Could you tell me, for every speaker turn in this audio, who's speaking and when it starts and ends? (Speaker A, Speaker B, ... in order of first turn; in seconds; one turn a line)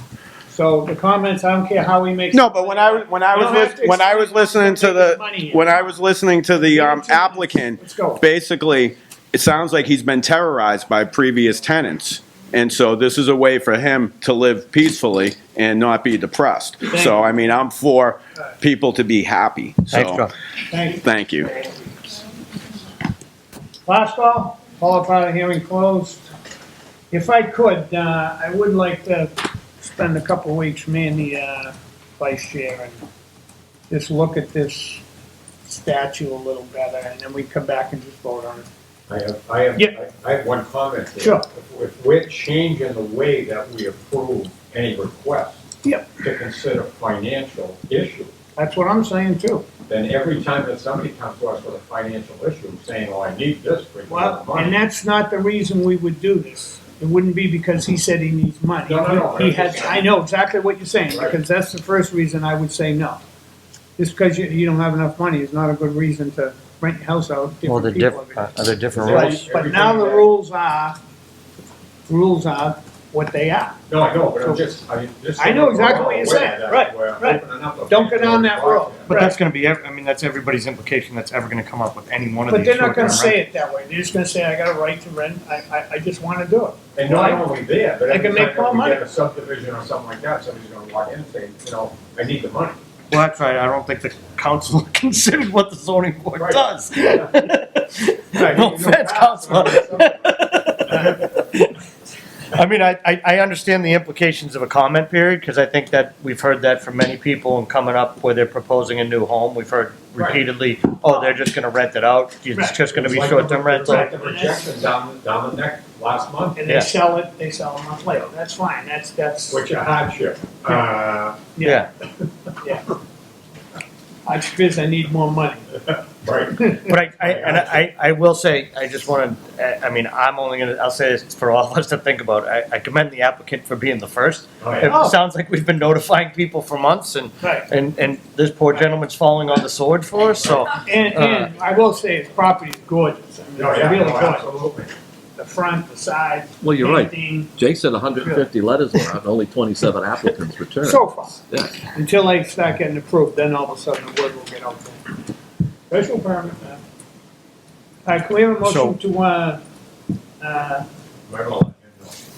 Speaker A: 0.5-6.0
Speaker B: 2.3-20.2
Speaker A: 6.5-8.2
Speaker C: 19.9-20.3
Speaker A: 20.7-21.0
Speaker B: 20.9-21.5
Speaker A: 23.9-26.3
Speaker A: 27.1-33.0
Speaker A: 33.9-35.0
Speaker A: 35.6-38.7
Speaker D: 39.1-45.5
Speaker A: 41.2-41.4
Speaker A: 45.8-46.2
Speaker D: 46.2-48.3
Speaker A: 48.5-49.6
Speaker D: 49.9-54.8
Speaker A: 54.1-63.2
Speaker D: 58.8-60.0
Speaker A: 64.0-71.0
Speaker C: 67.7-69.5
Speaker D: 68.9-70.3
Speaker A: 72.1-73.8
Speaker D: 73.9-79.1
Speaker A: 75.4-79.4
Speaker C: 79.1-83.4
Speaker A: 82.5-87.5
Speaker D: 86.9-92.8
Speaker A: 88.1-89.0
Speaker C: 93.1-101.7
Speaker D: 96.4-97.3
Speaker D: 98.3-100.3
Speaker C: 102.5-114.2
Speaker A: 112.5-112.8
Speaker D: 112.9-116.6
Speaker A: 113.8-114.9
Speaker A: 116.5-119.6
Speaker C: 116.7-116.9
Speaker D: 119.5-121.4
Speaker A: 121.5-121.9
Speaker C: 121.6-121.9
Speaker A: 122.6-122.9
Speaker A: 124.2-126.0
Speaker D: 126.2-127.7
Speaker C: 126.8-141.5
Speaker A: 134.8-135.2
Speaker A: 137.4-137.7
Speaker A: 140.8-144.6
Speaker D: 143.6-144.9
Speaker A: 145.4-147.5
Speaker E: 146.6-151.8
Speaker A: 150.8-155.2
Speaker A: 155.9-156.8
Speaker A: 158.1-159.6
Speaker C: 158.6-158.9
Speaker A: 160.4-160.8
Speaker D: 161.3-162.1